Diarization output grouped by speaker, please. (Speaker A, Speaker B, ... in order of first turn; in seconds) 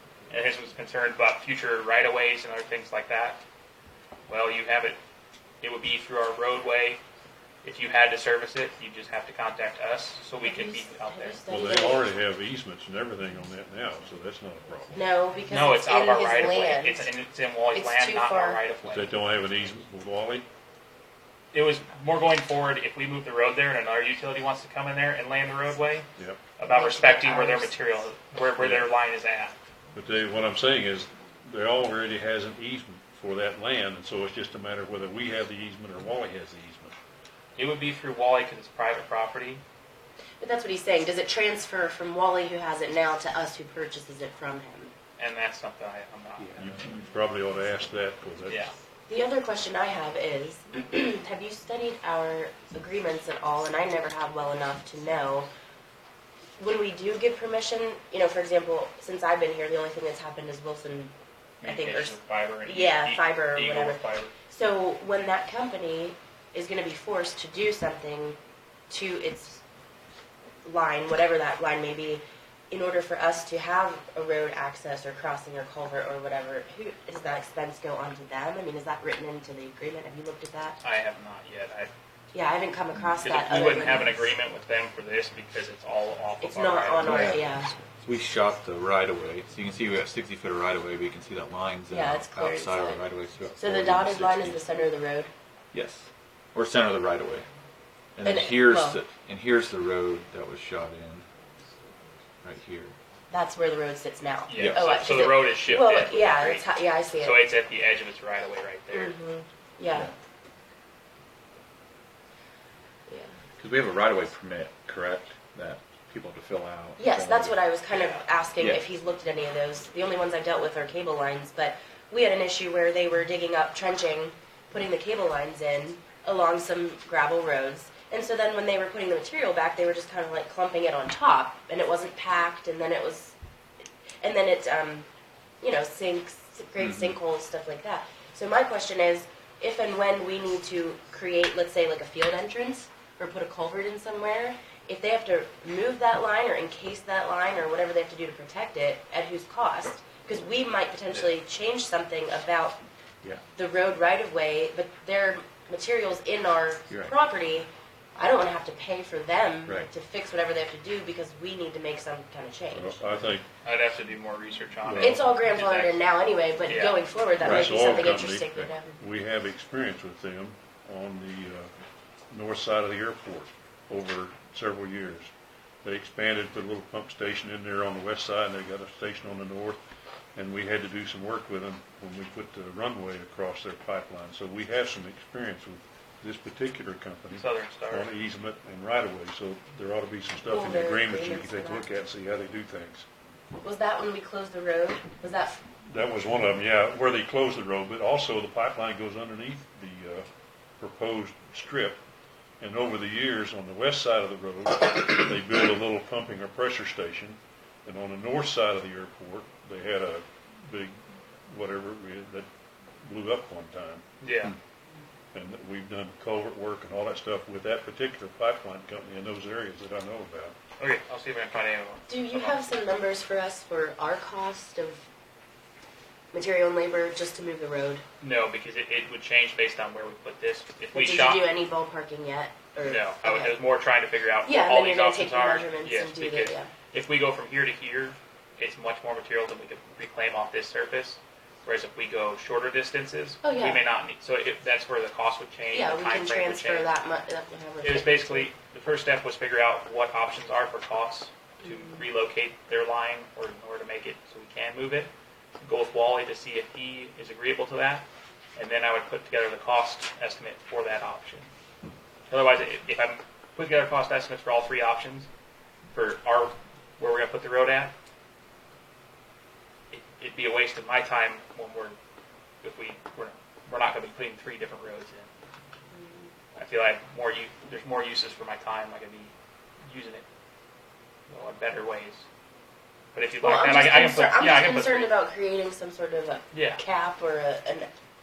Speaker A: 0.3-3.4, 4.3-5.0, 5.6-7.0, 7.6-11.4, 15.5-19.1, 21.5-26.1, 26.6-29.5, 37.5-39.6, 45.2-46.7, 48.5-48.7, 61.6-64.3, 80.8-81.9, 83.2-87.4, 104.5-106.7, 107.2-109.2, 117.9-118.2, 163.6-165.9, 166.7-167.0, 187.4-188.1, 214.2-214.5, 220.8-222.7, 228.2-231.5, 232.8-246.9, 247.8-261.5, 262.3-265.3, 265.9-267.9, 269.9-271.9, 272.6-275.3, 276.5-279.3, 279.9-280.2, 281.3-282.2, 283.1-285.1, 286.5-286.8
Speaker B: 10.4-12.1, 14.9-17.1, 17.7-18.6, 26.6-27.7, 40.4-44.9, 49.1-55.5, 56.6-68.4, 68.9-69.6, 70.6-80.8, 82.3-84.3, 86.4-87.7, 91.9-93.0, 93.5-95.3, 98.2-99.0, 103.3-107.4, 108.9-110.1, 113.1-113.3, 117.0-133.3, 134.2-135.1, 135.6-152.8, 153.6-163.0, 165.0-168.9, 190.5-191.8, 193.6-195.6, 222.1-225.0, 226.3-228.0, 230.9-233.6, 234.4-236.7, 243.4-243.9, 245.7-248.5, 275.9-276.3, 283.4-287.9
Speaker C: 11.5-15.0, 18.9-20.5, 26.2-26.4, 28.6-28.9, 29.9-37.0, 46.6-48.6, 162.7-163.4, 164.8-165.2, 167.4-171.7, 172.3-175.3, 175.8-179.8, 180.3-193.1, 195.8-200.3, 200.8-202.0, 202.6-212.5, 213.0-214.0, 215.3-220.5
Speaker D: 87.0-87.4, 88.0-94.6, 95.7-97.5, 98.2-101.3, 102.4-103.0, 104.5-105.3, 113.6-117.5, 136.8-137.2, 156.9-157.1, 167.4-167.9